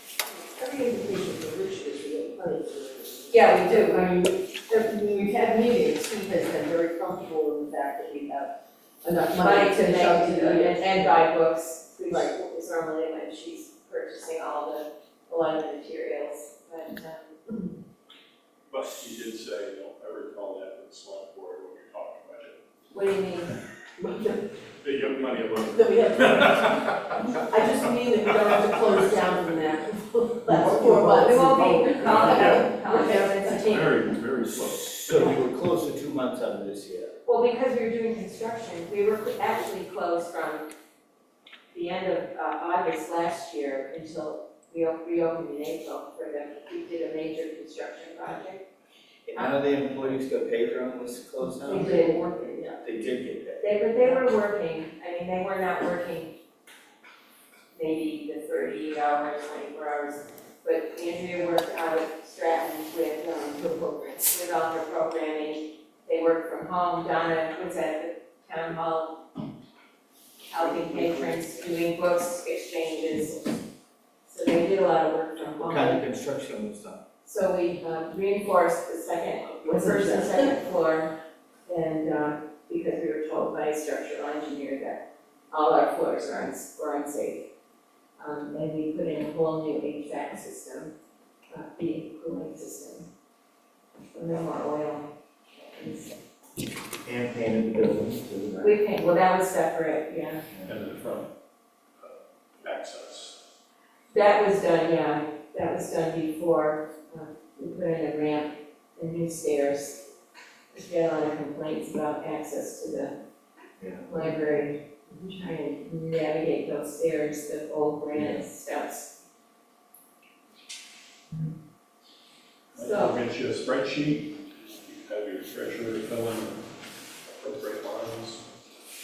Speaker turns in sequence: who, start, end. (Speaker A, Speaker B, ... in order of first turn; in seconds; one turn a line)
Speaker A: 0.3-11.1
Speaker B: 3.3-4.1
Speaker B: 9.4-17.5
Speaker A: 12.1-12.3
Speaker C: 18.7-22.6
Speaker B: 22.9-23.6
Speaker A: 24.0-24.4
Speaker C: 24.8-27.9
Speaker A: 25.7-33.7
Speaker C: 28.7-29.1
Speaker B: 31.1-33.9
Speaker C: 32.0-32.8
Speaker C: 33.4-35.4
Speaker D: 34.4-37.1
Speaker B: 37.2-40.7
Speaker B: 41.7-48.6
Speaker D: 49.2-52.0
Speaker A: 51.6-52.8
Speaker B: 51.7-52.2
Speaker D: 52.8-53.7
Speaker B: 53.6-56.3
Speaker B: 57.7-69.2
Speaker A: 63.7-64.0
Speaker B: 70.5-73.4
Speaker B: 74.2-76.0
Speaker D: 75.6-77.0
Speaker B: 77.2-81.1
Speaker A: 79.7-80.5
Speaker B: 81.7-87.5
Speaker B: 88.2-90.9
Speaker B: 91.5-93.1
Speaker B: 94.1-95.0
Speaker B: 95.7-96.1
Speaker D: 97.0-98.8
Speaker B: 98.6-100.4
Speaker C: 100.7-101.3
Speaker C: 102.0-103.4
Speaker B: 104.1-110.0
Speaker B: 110.7-113.1
Speaker B: 114.1-119.1
Speaker C: 122.7-126.6
Speaker B: 122.8-123.2
Speaker C: 127.2-128.4